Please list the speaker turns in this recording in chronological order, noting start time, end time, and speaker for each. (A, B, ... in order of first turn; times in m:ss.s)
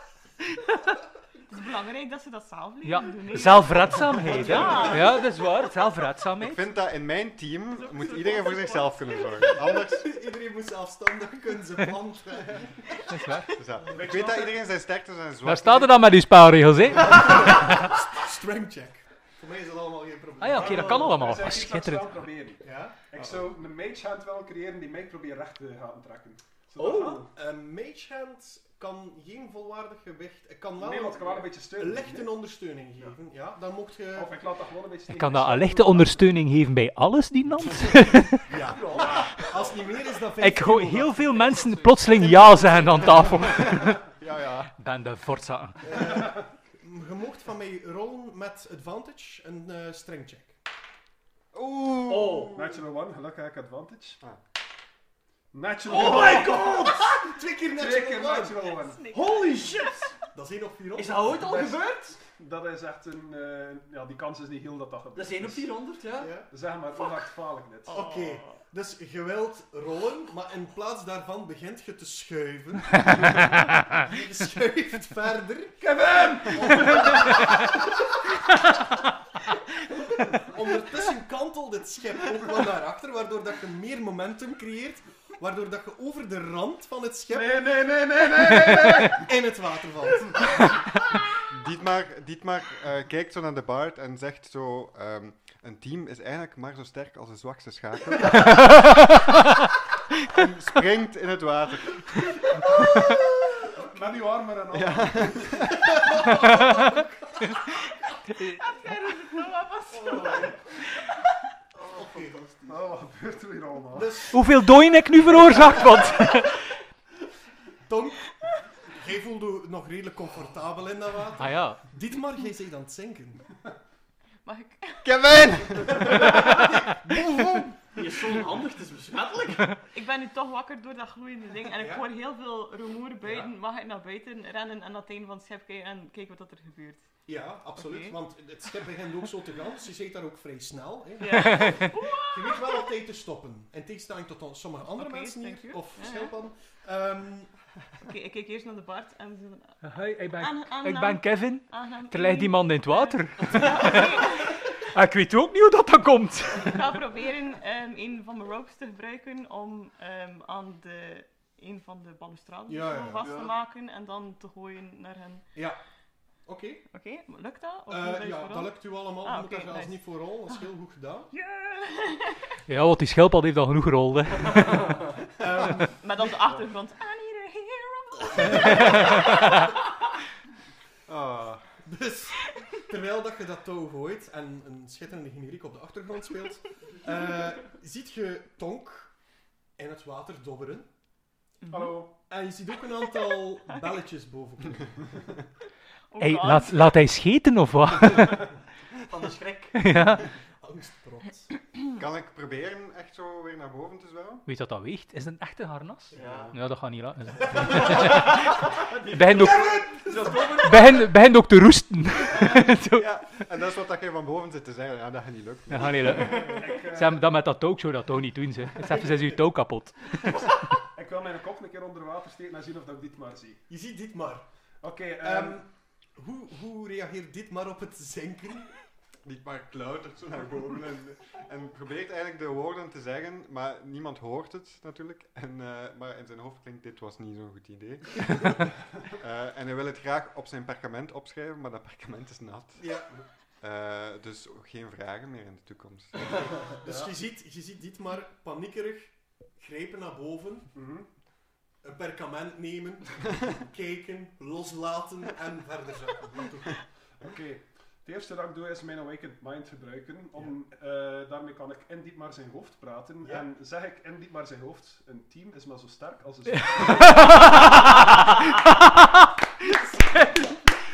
0:01.5-0:05.3 A
0:02.8-0:06.7 B
0:04.2-0:05.1 C
0:06.4-0:10.1 D
0:07.8-0:09.3 A
0:09.8-0:12.8 C
0:13.1-0:13.5 B
0:13.6-0:16.0 D
0:13.9-0:14.6 E
0:15.4-0:17.9 B
0:17.0-0:21.4 C
0:20.4-0:22.2 B
0:20.5-0:27.3 E
0:22.6-0:23.0 C
0:26.8-0:27.2 F
0:27.3-0:34.4 C
0:30.8-0:32.3 E
0:34.1-0:36.0 E
0:35.1-0:38.5 B
0:38.5-0:43.6 C
0:38.7-0:39.5 F
0:38.9-0:39.4 E
0:40.4-0:44.0 B
0:43.4-0:44.7 D
0:44.8-0:45.9 B
0:45.8-0:50.6 C
0:51.5-0:52.7 D
0:52.1-0:52.5 F
0:52.4-0:54.2 E
0:55.5-0:57.2 E
0:55.9-0:56.9 F
0:55.9-0:58.7 C
0:57.8-1:00.1 E
0:58.7-0:59.8 A
1:00.3-1:01.4 C
1:01.0-1:02.2 F
1:01.4-1:05.7 E
1:05.2-1:06.3 F
1:06.2-1:06.5 C
1:06.5-1:08.0 E
1:07.9-1:17.9 C
1:07.9-1:08.6 A
1:15.8-1:17.4 E
1:20.2-1:30.6 C
1:27.3-1:29.3 E
1:31.5-1:38.8 D
1:40.3-1:42.9 D
1:43.8-1:45.7 E
1:44.7-1:45.8 D
1:45.7-1:47.6 C
1:48.6-1:50.6 A
1:50.1-1:50.4 C
1:50.1-1:50.5 F
1:51.8-1:52.8 F
1:51.9-1:52.5 C
1:52.7-1:54.2 E
1:53.9-1:54.7 C
1:54.3-1:56.6 B
1:55.4-1:56.3 C
1:57.8-1:58.3 C
1:58.9-2:03.5 C
2:01.4-2:01.9 B
2:04.4-2:05.6 A
2:05.0-2:06.6 D
2:05.9-2:07.7 C
2:07.1-2:07.7 D
2:08.0-2:09.8 F
2:09.9-2:17.2 A
2:11.8-2:12.1 C
2:13.2-2:13.5 C
2:17.2-2:27.6 C
2:17.8-2:18.2 A
2:21.2-2:22.9 A
2:21.5-2:21.8 B
2:24.8-2:26.4 A
2:28.0-2:34.6 A
2:29.8-2:37.0 B
2:36.6-2:45.5 A
2:42.7-2:43.3 C
2:43.2-2:43.5 F
2:46.4-2:46.8 C
2:46.9-2:50.6 A
2:47.9-2:51.3 C
2:51.3-2:52.5 A
2:52.7-2:55.0 B
2:55.4-2:56.0 C
2:56.0-2:59.7 A
2:58.4-2:59.0 C
3:01.1-3:01.6 D
3:01.8-3:09.1 C
3:09.8-3:10.9 C
3:11.6-3:12.1 A
3:11.7-3:12.2 E
3:12.2-3:15.1 C
3:16.1-3:17.0 A
3:16.2-3:18.5 B
3:19.1-3:19.8 F
3:19.8-3:20.3 B
3:20.2-3:21.5 C
3:22.0-3:24.5 D
3:24.5-3:28.5 B
3:26.2-3:26.5 D
3:26.2-3:26.6 F
3:27.4-3:27.8 C
3:27.7-3:31.1 F
3:29.1-3:29.9 B
3:29.3-3:30.5 C
3:30.5-3:33.3 B
3:32.3-3:36.4 D
3:35.7-3:40.4 B
3:36.5-3:37.2 E
3:41.0-3:43.6 E
3:43.7-3:44.6 C
3:44.8-3:45.6 E
3:45.2-3:48.8 C
3:49.2-4:03.0 D
4:02.8-4:03.1 C
4:03.6-4:06.5 D
4:06.7-4:07.1 E
4:06.8-4:10.7 C
4:10.7-4:11.2 E
4:11.8-4:16.8 C
4:17.2-4:27.4 E
4:26.6-4:27.9 B
4:29.9-4:30.5 B